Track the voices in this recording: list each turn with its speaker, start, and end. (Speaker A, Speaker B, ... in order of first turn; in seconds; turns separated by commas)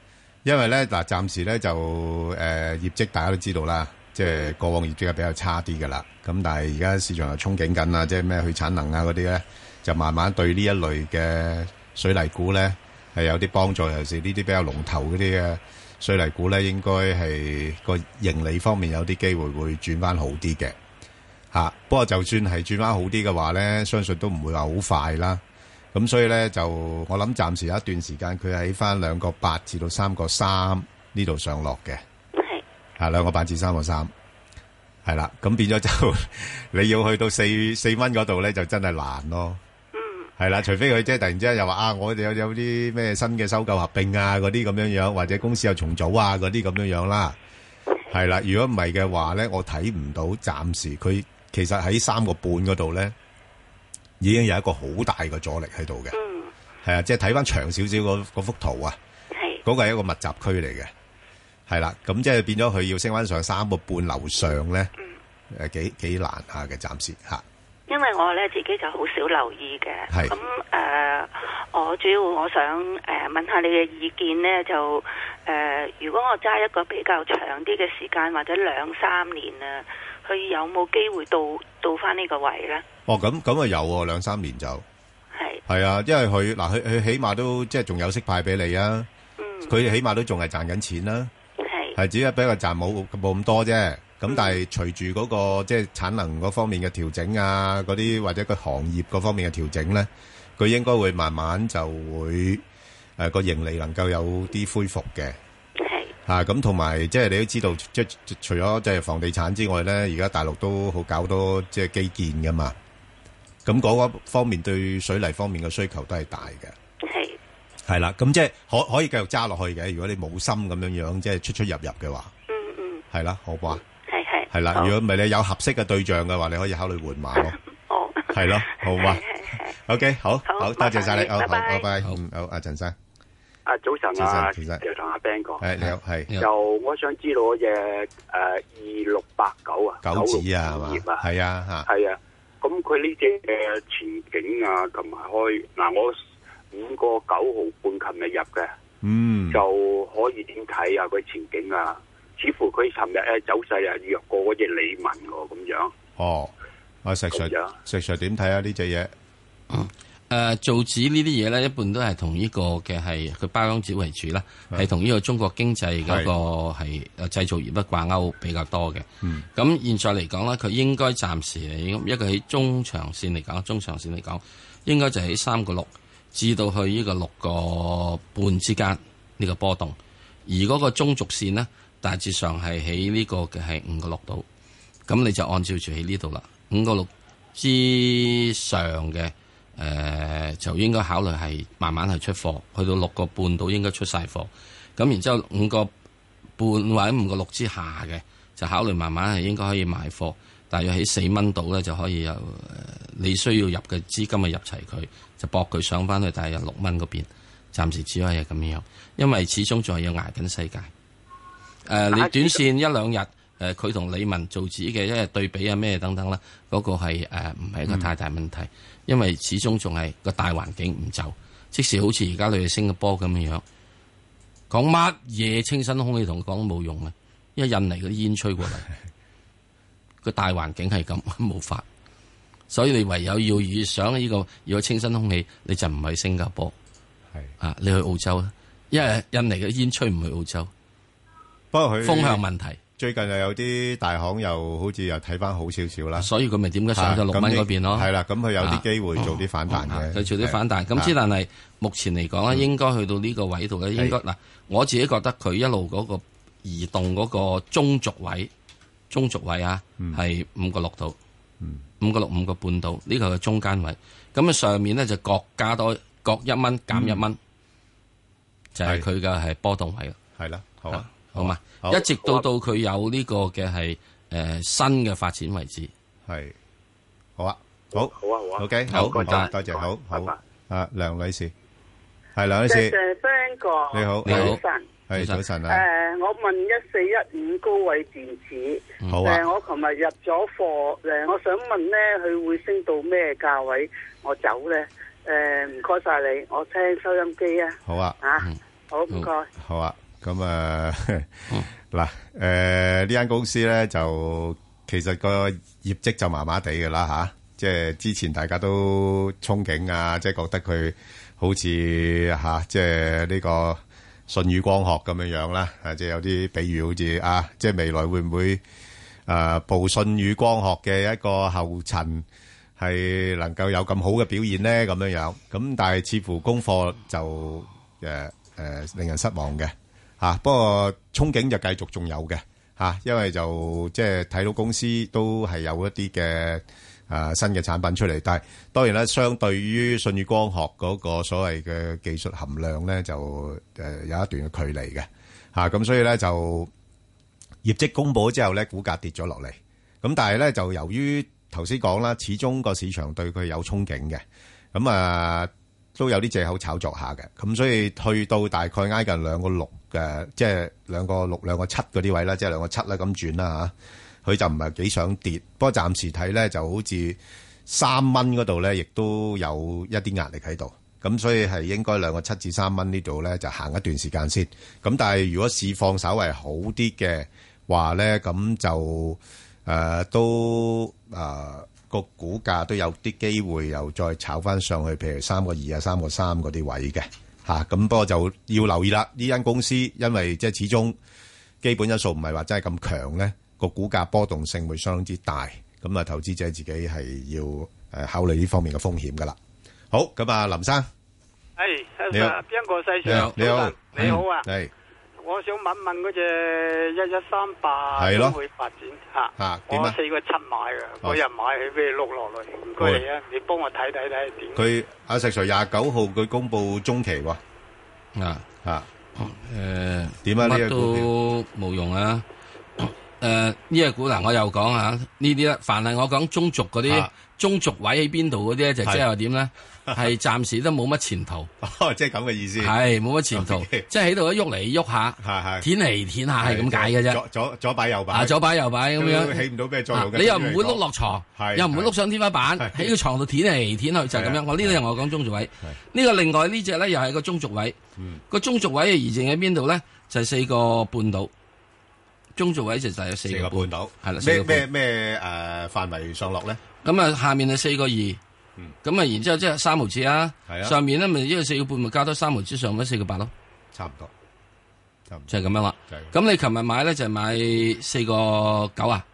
Speaker A: 0.4-20.8, Speaker A: 21.5-25.4, Speaker A: 25.9-32.0, Speaker B: 32.3-32.6, Speaker A: 33.0-34.1, Speaker A: 35.0-39.6, Speaker B: 39.9-40.3, Speaker A: 40.4-47.4, Speaker A: 48.1-53.1, Speaker A: 54.2-56.1, Speaker B: 56.1-56.5, Speaker A: 56.8-59.0, Speaker B: 59.3-59.6, Speaker A: 59.6-60.9, Speaker A: 61.7-64.9, Speaker A: 65.5-67.4, Speaker B: 67.9-82.8, Speaker A: 70.1-70.3, Speaker A: 83.1-84.8, Speaker B: 85.3-85.6, Speaker A: 85.7-89.1, Speaker B: 89.4-89.7, Speaker A: 89.7-91.3, Speaker B: 91.6-92.0, Speaker A: 92.0-102.6, Speaker B: 94.3-94.6, Speaker A: 103.2-105.4, Speaker B: 105.8-106.1, Speaker A: 106.3-112.7, Speaker A: 113.6-116.7, Speaker B: 117.0-117.4, Speaker A: 117.9-122.3, Speaker B: 122.5-123.0, Speaker A: 123.1-123.8, Speaker B: 124.0-124.9, Speaker A: 124.5-127.6, Speaker B: 127.5-129.7, Speaker A: 128.3-132.9, Speaker B: 130.4-131.9, Speaker C: 133.7-135.7, Speaker A: 134.2-134.8, Speaker A: 135.6-136.3, Speaker D: 135.8-136.5, Speaker C: 136.4-141.2, Speaker A: 140.0-141.9, Speaker C: 141.8-146.1, Speaker C: 146.7-148.7, Speaker A: 149.0-149.6, Speaker C: 149.5-155.9, Speaker A: 156.2-156.5, Speaker A: 157.0-159.1, Speaker C: 157.3-157.7, Speaker D: 159.7-184.4, Speaker A: 166.0-166.3, Speaker D: 185.1-195.9, Speaker D: 196.6-210.9, Speaker D: 211.9-223.6, Speaker D: 224.7-228.9, Speaker D: 230.2-231.8, Speaker D: 232.7-236.7, Speaker D: 237.6-240.7, Speaker A: 241.7-242.4, Speaker D: 242.0-242.8, Speaker A: 243.0-246.3, Speaker D: 246.2-258.5, Speaker A: 246.9-251.1, Speaker D: 259.1-261.2, Speaker D: 262.0-267.4, Speaker A: 266.9-267.2, Speaker D: 268.7-270.2, Speaker A: 270.4-272.1, Speaker D: 270.9-275.9, Speaker A: 276.3-276.5, Speaker A: 277.4-281.5, Speaker C: 277.9-280.4, Speaker D: 278.9-279.5, Speaker A: 282.4-282.9, Speaker E: 282.6-284.9, Speaker A: 283.9-285.8, Speaker D: 284.2-284.6, Speaker D: 285.1-285.4, Speaker E: 285.7-299.5, Speaker A: 289.1-289.4, Speaker A: 297.9-298.2, Speaker A: 299.6-318.6, Speaker A: 319.3-322.2, Speaker A: 322.8-346.7, Speaker A: 347.6-363.7, Speaker A: 364.2-390.9, Speaker A: 391.6-399.4, Speaker A: 399.9-400.9, Speaker F: 401.6-404.5, Speaker A: 402.1-402.4, Speaker D: 403.0-403.4, Speaker A: 403.0-404.7, Speaker D: 403.9-404.2, Speaker F: 405.2-414.6, Speaker A: 407.9-408.4, Speaker A: 409.4-409.9, Speaker A: 412.8-413.0, Speaker A: 414.5-417.4, Speaker D: 418.1-418.4, Speaker D: 419.2-422.2, Speaker A: 420.2-421.1, Speaker D: 422.8-431.5, Speaker A: 426.8-427.1, Speaker A: 431.6-432.7, Speaker D: 432.6-437.2, Speaker A: 433.3-433.9, Speaker A: 435.2-435.6, Speaker A: 436.4-438.4, Speaker D: 438.1-447.8, Speaker A: 438.9-440.8, Speaker A: 441.3-441.9, Speaker A: 442.5-442.9, Speaker A: 444.1-444.8, Speaker A: 448.0-448.2, Speaker D: 448.3-451.3, Speaker D: 452.4-454.6, Speaker A: 453.3-456.6, Speaker D: 456.8-458.2, Speaker D: 458.8-463.3, Speaker A: 460.5-460.8, Speaker A: 463.7-464.1, Speaker D: 465.3-469.0